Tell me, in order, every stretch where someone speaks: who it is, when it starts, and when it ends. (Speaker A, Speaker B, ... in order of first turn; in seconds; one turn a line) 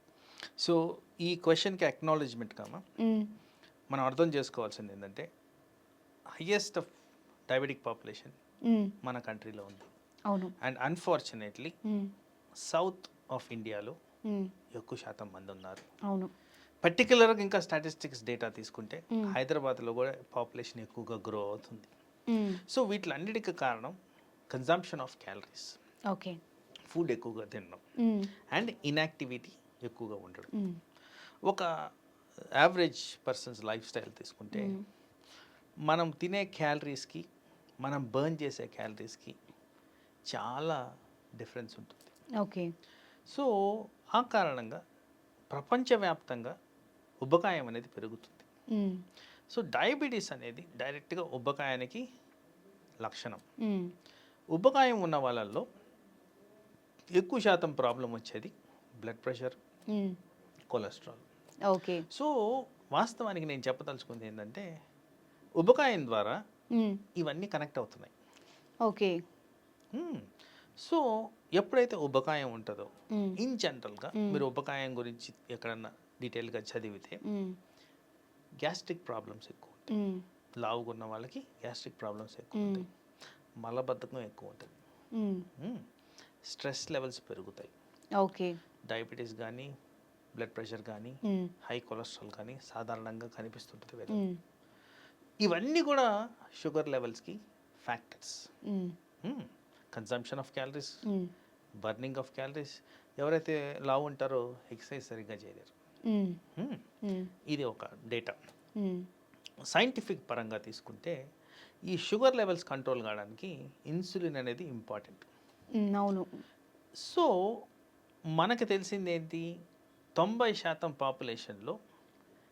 Speaker A: 0.6-2.8
Speaker B: 3.0-3.3
Speaker A: 3.9-5.3
Speaker A: 6.4-6.9
Speaker A: 7.5-8.4
Speaker A: 9.0-9.9
Speaker B: 10.3-10.5
Speaker A: 10.6-11.7
Speaker A: 12.7-13.9
Speaker A: 14.8-15.8
Speaker A: 16.8-21.9
Speaker B: 22.3-22.6
Speaker A: 22.7-24.0
Speaker A: 24.5-25.8
Speaker B: 26.1-26.4
Speaker A: 26.9-27.8
Speaker B: 28.0-28.3
Speaker A: 28.5-30.5
Speaker A: 32.6-34.7
Speaker B: 34.5-34.8
Speaker A: 35.9-37.2
Speaker A: 37.8-39.4
Speaker A: 40.3-40.8
Speaker A: 41.4-42.1
Speaker B: 42.4-42.7
Speaker A: 44.2-44.8
Speaker A: 45.5-46.5
Speaker A: 47.3-48.5
Speaker B: 48.8-49.0
Speaker A: 49.5-52.0
Speaker A: 53.0-53.4
Speaker B: 53.7-53.9
Speaker A: 54.6-55.6
Speaker A: 57.2-59.6
Speaker A: 60.7-61.2
Speaker B: 61.7-62.0
Speaker A: 63.0-64.7
Speaker A: 65.6-66.4
Speaker A: 67.2-68.1
Speaker B: 68.9-69.2
Speaker A: 69.9-70.3
Speaker A: 71.6-77.2
Speaker B: 77.3-77.6
Speaker A: 78.6-79.9
Speaker B: 79.9-80.2
Speaker A: 80.6-82.9
Speaker B: 82.6-82.8
Speaker A: 83.6-84.8
Speaker B: 85.2-85.5
Speaker A: 85.6-85.8
Speaker A: 86.5-87.7
Speaker B: 88.2-88.6
Speaker A: 88.9-89.7
Speaker A: 90.4-94.2
Speaker B: 94.1-94.4
Speaker A: 95.4-98.5
Speaker B: 98.7-99.0
Speaker A: 99.2-101.0
Speaker A: 101.8-105.7
Speaker B: 106.1-106.4
Speaker A: 106.6-106.8
Speaker A: 107.5-108.4
Speaker B: 108.8-109.1
Speaker A: 109.7-111.2
Speaker A: 111.9-115.3
Speaker B: 115.8-116.3
Speaker A: 117.0-117.3
Speaker A: 118.4-119.5
Speaker A: 120.2-121.8